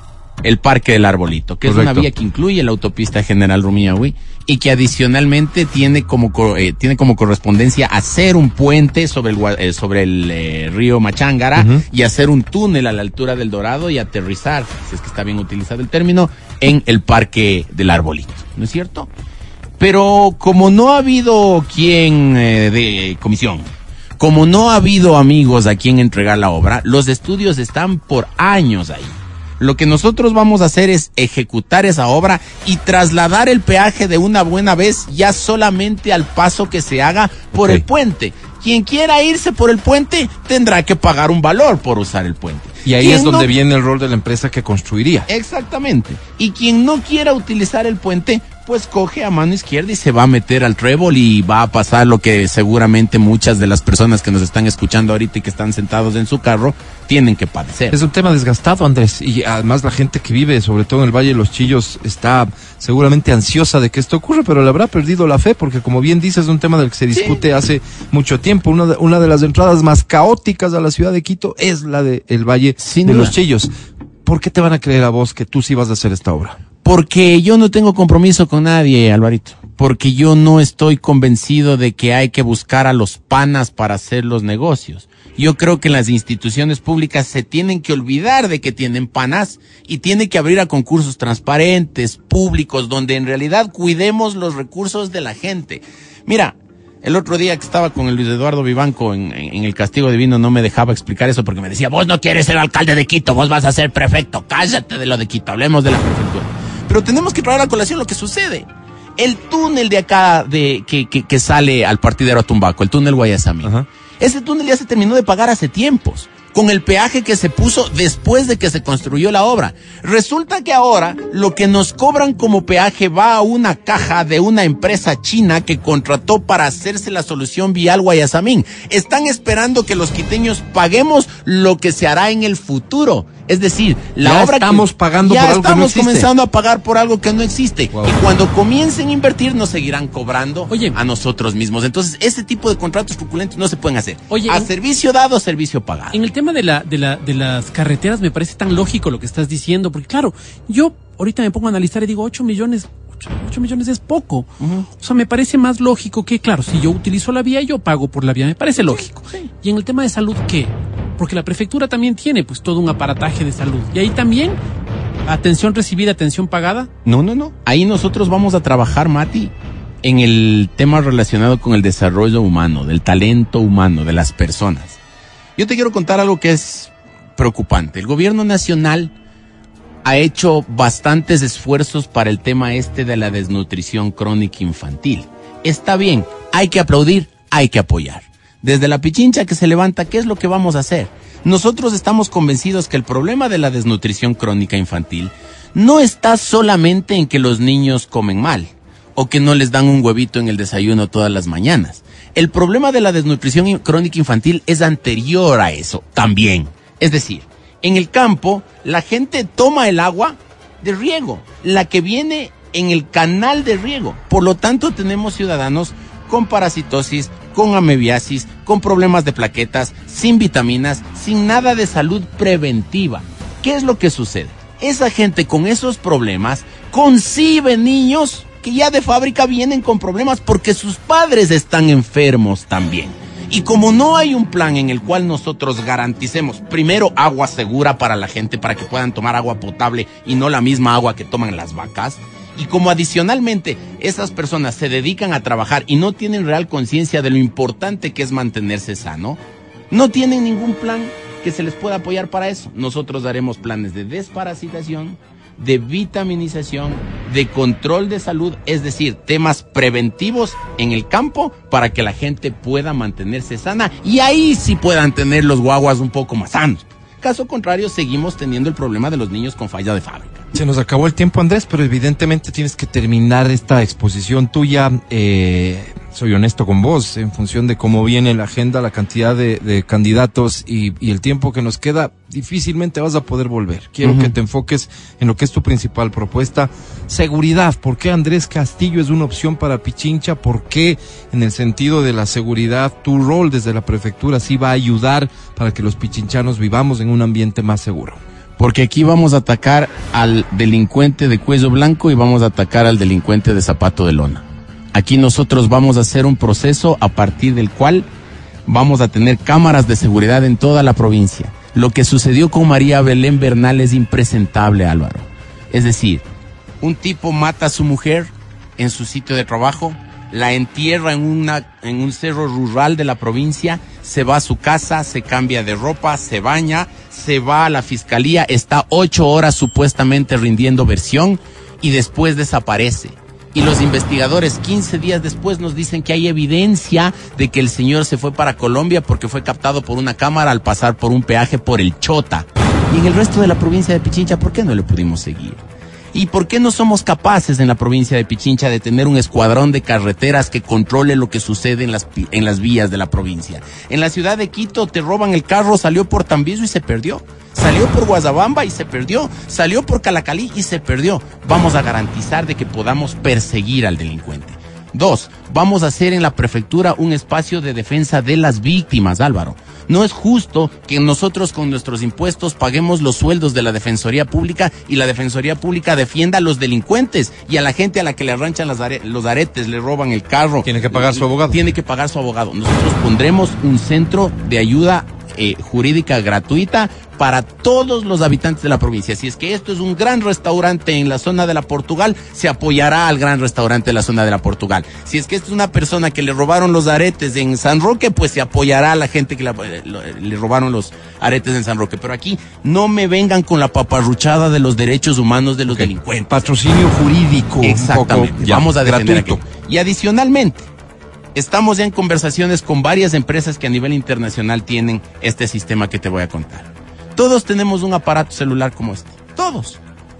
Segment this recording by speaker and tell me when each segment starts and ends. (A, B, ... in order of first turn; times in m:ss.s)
0:00.4-0:19.1 A
0:01.6-0:02.1 B
0:11.6-0:11.8 B
0:19.8-0:43.5 A
0:37.5-0:37.8 B
0:42.8-0:45.3 B
0:45.3-0:58.0 A
0:57.9-1:13.7 B
1:07.1-1:07.4 A
1:12.8-1:13.3 A
1:14.2-1:16.6 B
1:16.8-2:26.2 A
2:14.2-2:16.3 B
2:20.7-2:21.0 C
2:24.3-2:24.7 C
2:26.1-2:34.5 C
2:34.6-2:34.9 A
2:35.0-2:44.6 C
2:45.2-2:46.9 C
2:47.0-2:49.5 A
2:50.0-2:55.0 A
2:55.6-2:59.1 A
3:00.0-4:09.4 A
4:09.9-4:30.5 A
4:30.5-4:58.2 B
4:44.0-4:44.3 A
4:58.6-5:08.1 A
5:08.6-5:16.2 A
5:16.8-5:45.6 A
5:46.1-6:46.4 A
6:20.6-6:21.6 B
6:45.7-6:49.4 B
6:47.6-6:50.6 A
6:51.3-6:59.8 A